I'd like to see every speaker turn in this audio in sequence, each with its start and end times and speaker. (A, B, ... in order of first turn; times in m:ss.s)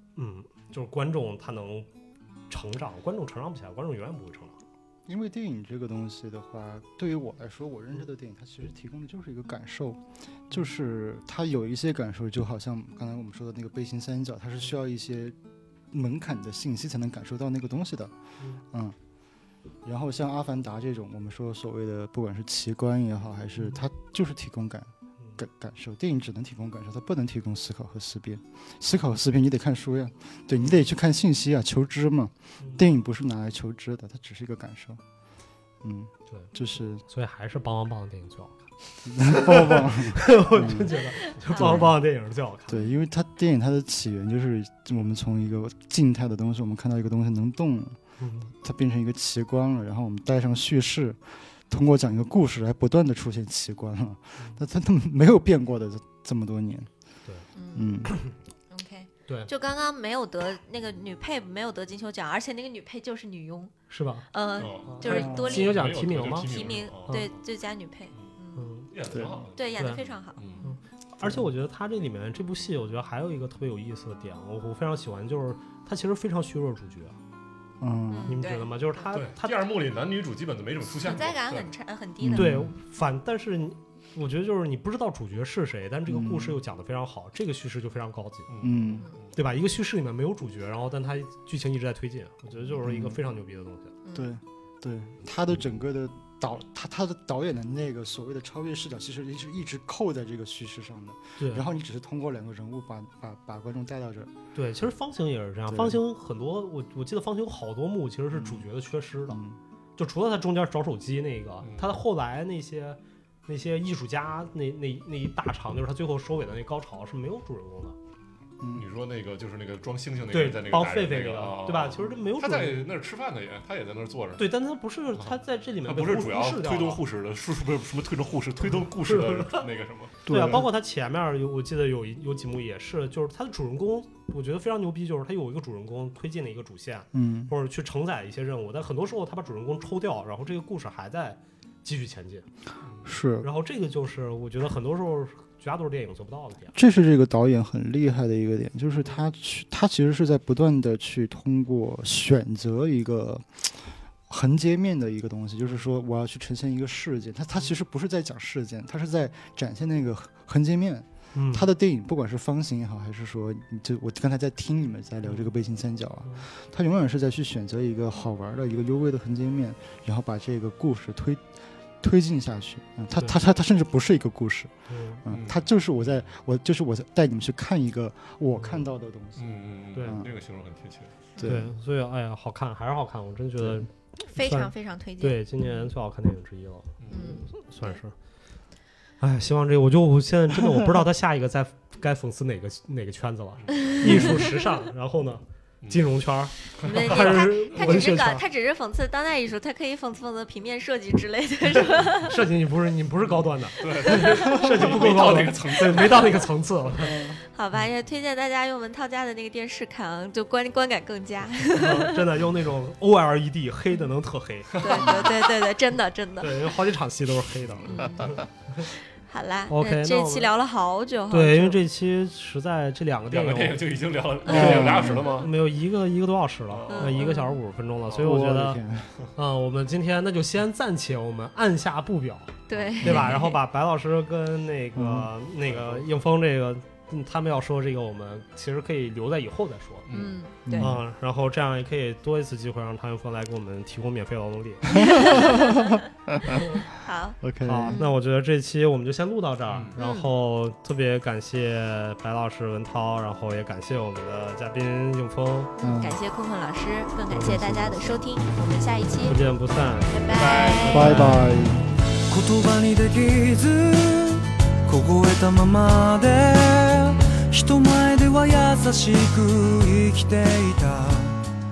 0:00.2-0:01.9 A
0:02.5-0:04.6 A
0:05.1-0:15.4 B
0:15.9-0:18.1 B
0:19.8-0:35.0 B
0:35.8-0:37.0 B
0:37.1-0:42.9 A
0:39.0-0:42.0 B
0:41.4-0:41.8 C
0:42.7-0:48.0 B
0:48.2-0:48.5 A
0:48.5-0:56.9 B
0:57.5-0:58.0 C
0:57.7-0:58.1 B
0:58.1-0:58.3 A
0:58.7-1:03.7 C
1:03.9-1:04.3 A
1:04.3-1:08.7 C
1:04.6-1:07.3 D
1:04.8-1:07.3 A
1:05.0-1:05.6 B
1:08.6-1:08.9 A
1:08.9-1:10.6 D
1:09.1-1:09.4 B
1:09.6-1:10.8 C
1:10.6-1:17.2 A
1:11.2-1:11.5 B
1:17.8-1:18.4 B
1:18.1-1:19.1 C
1:18.3-1:19.6 A
1:19.1-1:21.7 D
1:21.0-1:22.5 C
1:22.2-1:22.7 B
1:22.3-1:28.5 A
1:26.1-1:26.6 B
1:28.5-1:29.3 D
1:28.6-1:29.1 B
1:29.3-1:33.9 A
1:32.6-1:33.2 B
1:34.0-1:34.3 C
1:34.1-1:44.3 B
1:41.4-1:41.6 A
1:44.5-1:49.4 A
1:45.7-1:46.0 B
1:48.3-1:48.6 B
1:49.3-1:49.6 B
1:50.0-1:58.0 A
1:51.6-1:51.9 D
1:58.6-1:58.9 B
1:58.7-2:04.5 D
2:00.3-2:02.8 A
2:04.4-2:07.0 A
2:05.2-2:10.2 D
2:08.7-2:09.7 A
2:10.2-2:10.7 B
2:10.3-2:22.4 A
2:17.1-2:17.5 B
2:23.0-2:23.5 B
2:23.4-2:26.7 A
2:26.7-2:51.5 B
2:41.3-2:41.7 A
2:45.2-2:45.5 A
2:52.0-2:54.7 B
2:54.9-2:55.2 A
2:55.2-2:59.4 B
2:55.3-2:55.7 D
2:59.4-3:01.1 D
2:59.9-3:00.2 A
3:00.0-3:00.3 B
3:01.4-3:01.6 C
3:01.4-3:01.7 B
3:01.4-3:08.1 A
3:04.3-3:05.4 C
3:07.0-3:07.4 D
3:07.1-3:08.0 C
3:09.2-3:18.4 A
3:13.7-3:13.9 D
3:14.0-3:14.5 B
3:15.8-3:16.1 D
3:16.8-3:18.1 D
3:16.8-3:22.4 C
3:22.2-3:27.2 A
3:23.8-3:26.5 D
3:23.8-3:24.6 C
3:27.0-3:27.4 B
3:27.5-3:32.3 C
3:31.8-3:34.8 A
3:34.7-3:35.5 D
3:34.8-3:36.7 C
3:36.4-3:38.9 A
3:37.8-3:41.8 C
3:39.7-3:40.5 A
3:41.3-3:43.8 A
3:43.3-3:45.5 D
3:44.4-3:45.3 C
3:44.4-3:45.3 B
3:44.5-3:48.8 A
3:46.7-3:47.3 D
3:46.9-3:47.6 C
3:48.1-3:49.2 B
3:49.3-4:00.1 A
3:52.7-3:53.3 C
3:52.7-3:53.5 D
3:53.0-3:53.3 B
3:55.0-3:55.3 B
3:55.7-3:56.1 D
4:00.1-4:00.4 D
4:00.1-4:00.9 C
4:00.6-4:01.0 B
4:00.8-4:05.4 A
4:04.9-4:06.6 B
4:05.0-4:06.0 C
4:06.9-4:08.2 C
4:07.4-4:08.0 B
4:07.6-4:15.7 A
4:10.0-4:10.3 C
4:15.8-4:19.4 C
4:15.8-4:16.2 B
4:17.3-4:17.8 A
4:17.4-4:18.2 B
4:19.2-4:20.2 A
4:20.1-4:21.1 C
4:20.3-4:21.4 D
4:20.8-4:21.5 A
4:20.9-4:21.9 B
4:22.3-4:31.4 E